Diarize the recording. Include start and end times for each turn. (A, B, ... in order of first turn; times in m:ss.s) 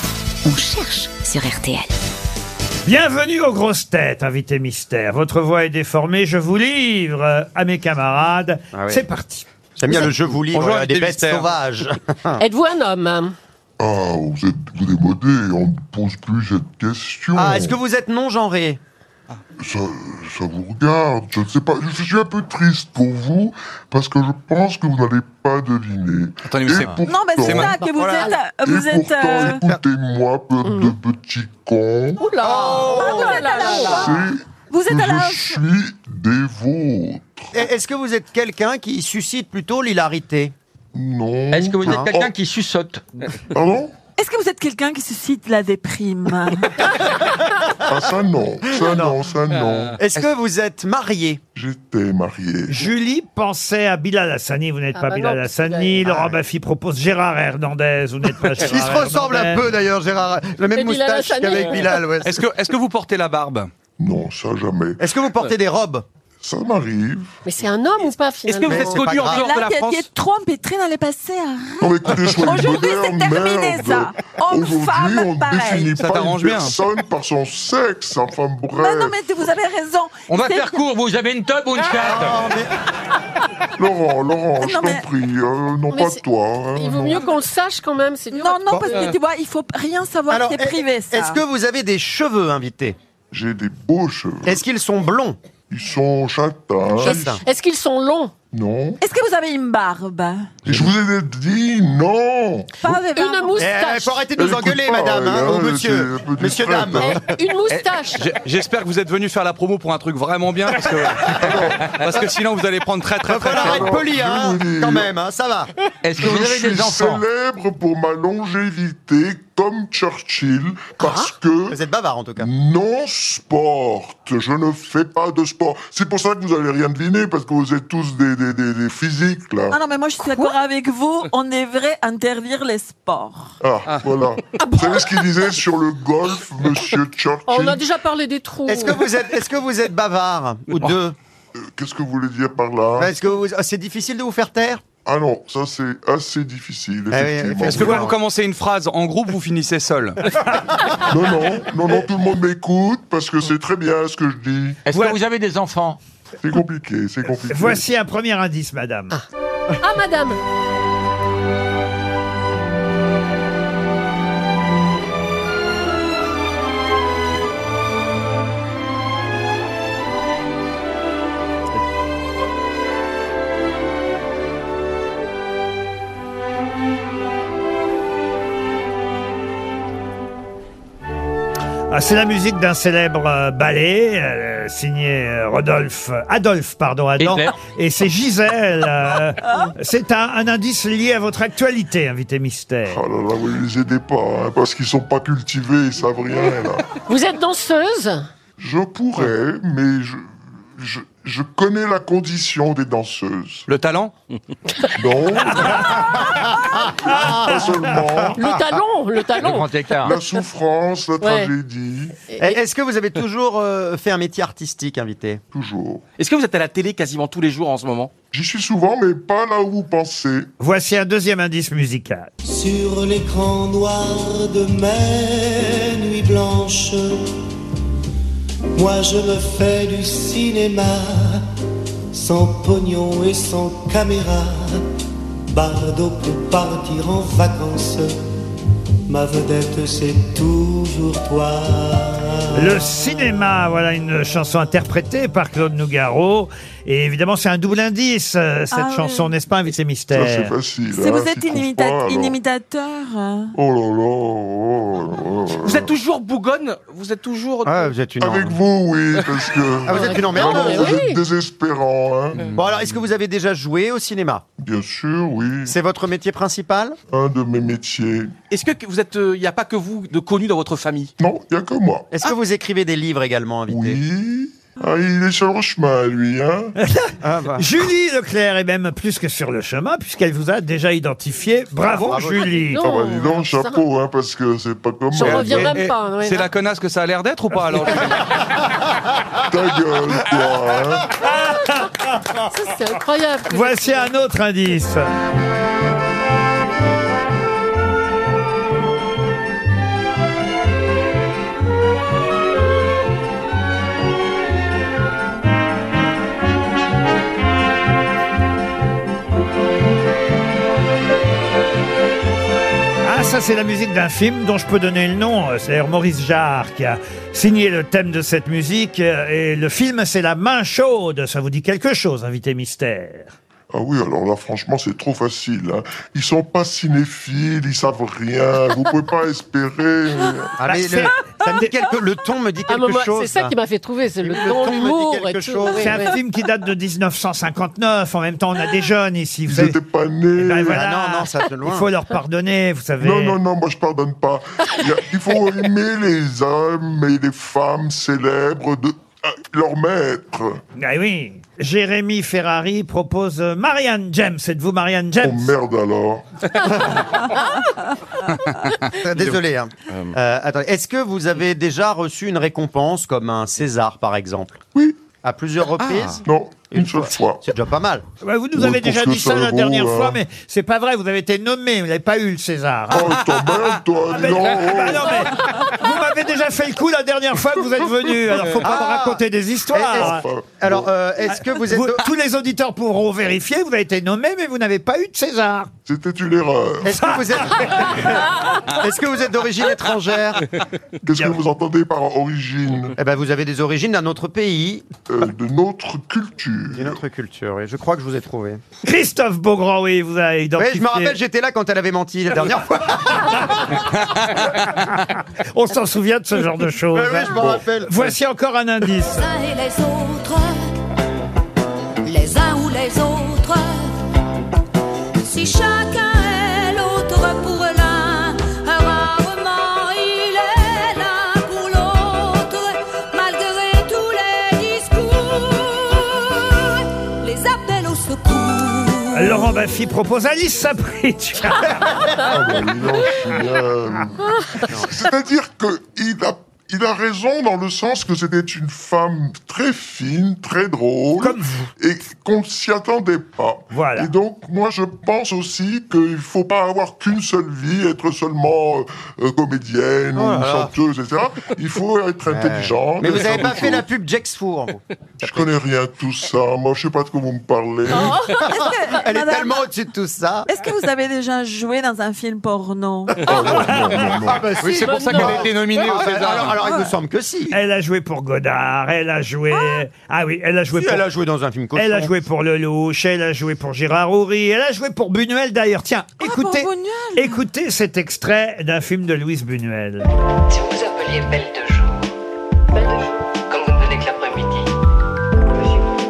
0:00.4-0:01.9 A
0:01.2-0:01.8 B
0:02.9-0:10.1 C
0:08.7-0:09.1 D
0:09.8-0:12.4 D
0:10.4-0:11.5 E
0:12.4-0:13.4 F
0:13.8-0:17.8 G
0:17.4-0:18.8 D
0:19.6-0:27.7 G
0:26.5-0:27.8 E
0:27.1-0:29.6 H
0:27.8-0:28.4 F
0:28.7-0:32.3 G
0:30.6-0:31.0 F
0:32.2-0:34.2 F
0:32.4-0:33.6 D
0:32.8-0:35.6 H
0:33.9-0:37.5 G
0:37.5-0:40.5 D
0:40.9-0:42.4 G
0:41.5-0:43.4 I
0:41.8-0:42.1 D
0:43.5-0:43.9 G
0:44.2-0:47.0 H
0:47.9-0:50.0 G
0:48.9-0:49.2 C
0:50.0-0:51.4 D
0:51.6-0:52.8 G
0:52.7-0:59.7 C
0:54.9-0:56.0 F
0:56.0-0:56.3 D
0:58.6-1:02.4 D
1:00.7-1:02.0 F
1:02.2-1:03.7 E
1:04.0-1:05.0 G
1:05.0-1:06.0 D
1:06.4-1:07.4 G
1:07.4-1:08.8 F
1:08.4-1:10.1 J
1:08.7-1:09.5 D
1:09.3-1:15.9 H
1:11.8-1:19.2 G
1:15.9-1:16.8 E
1:18.8-1:20.8 H
1:20.3-1:22.5 I
1:22.0-1:22.7 D
1:23.8-1:27.3 G
1:24.6-1:25.0 H
1:25.9-1:26.2 F
1:26.8-1:29.0 F
1:28.3-1:31.4 H
1:28.7-1:29.1 D
1:30.3-1:33.0 D
1:33.3-1:34.6 G
1:34.4-1:35.4 D
1:35.7-1:37.2 G
1:37.0-1:37.4 D
1:37.0-1:38.3 F
1:38.5-1:39.0 G
1:39.0-1:40.5 H
1:40.6-1:42.7 G
1:42.8-1:43.6 H
1:43.1-1:44.3 F
1:43.6-1:47.3 D
1:44.4-1:47.2 G
1:47.0-1:48.4 F
1:47.7-1:53.9 E
1:51.4-1:51.8 G
1:53.2-1:55.7 D
1:53.7-1:55.1 G
1:56.0-1:57.2 I
1:56.2-2:01.8 G
2:01.7-2:02.5 D
2:02.4-2:09.8 G
2:09.7-2:13.5 H
2:13.6-2:17.9 G
2:17.5-2:19.2 F
2:18.7-2:21.2 D
2:21.6-2:23.1 G
2:23.0-2:24.8 D
2:25.1-2:28.0 G
2:27.1-2:28.2 D
2:27.6-2:30.2 E
2:31.1-2:34.8 G
2:34.8-2:36.0 I
2:34.9-2:35.2 C
2:36.4-2:37.8 G
2:37.4-2:39.2 C
2:39.8-2:40.4 F
3:01.9-3:13.0 C
3:07.2-3:07.5 I
3:12.9-3:16.9 G
3:17.1-3:18.3 F
3:18.6-3:20.2 G
3:20.8-3:23.7 G
3:23.7-3:24.1 E
3:25.0-3:25.9 G
3:25.5-3:26.6 C
3:26.6-3:27.7 D
3:27.1-3:28.0 C
3:27.1-3:28.4 G
3:28.4-3:30.2 F
3:29.4-3:30.1 I
3:30.0-3:32.2 G
3:31.2-3:31.5 F
3:32.3-3:32.6 F
3:32.4-3:35.4 D
3:35.5-3:36.0 G
3:36.2-3:38.1 J
3:38.3-3:40.5 G
3:40.6-3:42.3 C
3:42.4-3:47.2 K
3:48.7-3:51.4 K
3:52.1-3:54.8 K
3:55.5-3:58.2 K
3:59.1-4:02.8 K
4:02.6-4:10.6 C
4:08.7-4:09.3 H
4:10.1-4:12.4 G
4:10.9-4:13.5 H
4:13.5-4:15.9 G
4:15.5-4:17.9 J
4:17.6-4:18.6 D
4:18.2-4:22.5 G
4:19.9-4:21.0 D
4:20.0-4:21.2 F
4:22.5-4:24.4 D
4:24.6-4:25.8 G
4:25.7-4:27.0 D
4:27.1-4:28.3 G
4:28.5-4:31.1 J
4:31.2-4:32.1 G
4:32.1-4:34.0 D
4:33.7-4:36.7 G
4:36.8-4:42.9 C
4:37.2-4:37.7 D
4:41.9-4:42.5 D
4:42.7-4:43.8 F
4:42.8-4:45.7 G
4:45.1-4:46.5 F
4:45.3-4:48.2 E
4:49.5-4:51.1 G
4:51.1-4:52.4 C
4:52.5-4:54.1 F
4:53.5-4:55.0 C
5:13.0-5:23.3 C
5:23.7-5:30.7 G
5:30.6-5:33.6 D
5:30.7-5:31.6 C
5:32.7-5:36.2 F
5:34.2-5:36.1 D
5:35.7-5:39.8 C
5:39.5-5:40.8 G
5:40.3-5:43.4 C
5:40.7-5:41.9 D
5:43.0-5:50.6 G
5:50.8-5:55.6 C
5:55.2-5:56.3 G
5:58.9-6:04.6 D
6:04.8-6:05.0 G
6:05.2-6:08.0 D
6:06.2-6:07.4 G
6:08.2-6:13.2 C
6:08.6-6:10.2 G
6:12.9-6:15.2 G
6:14.1-6:20.2 C
6:18.6-6:22.1 D
6:20.0-6:20.9 G
6:21.3-6:25.7 C
6:25.9-6:27.0 G
6:26.8-6:28.3 D
6:27.0-6:27.2 C
6:28.8-6:30.6 D
6:31.0-6:33.0 G
6:33.0-6:34.9 D
6:35.1-6:37.0 G
6:36.7-6:38.6 D
6:38.8-6:41.2 C
6:40.6-6:43.2 D
6:44.6-6:44.9 C
6:45.5-6:49.3 C
6:46.9-6:47.9 D
6:49.0-6:50.8 A
6:52.0-6:54.0 A
6:55.2-7:09.8 A
7:09.1-7:12.1 C
7:12.3-7:33.9 G
7:14.6-7:14.9 D
7:21.2-7:21.7 C
7:23.7-7:24.1 C
7:30.2-7:30.8 D
7:32.3-7:35.5 D
7:35.2-7:38.2 G
7:37.9-7:40.5 D
7:37.9-7:38.4 F
7:38.4-7:39.6 H
7:40.5-7:43.3 H
7:43.2-7:44.6 G
7:43.4-7:44.3 C
7:44.5-7:46.7 E
7:44.6-7:45.9 F
7:44.6-7:47.6 D
7:47.5-7:51.1 C
7:49.5-7:49.8 H
7:50.7-7:52.1 D
7:51.8-8:00.0 C
7:56.2-7:57.4 H
8:00.5-8:02.1 B
8:02.8-8:04.7 B
8:05.6-8:05.8 B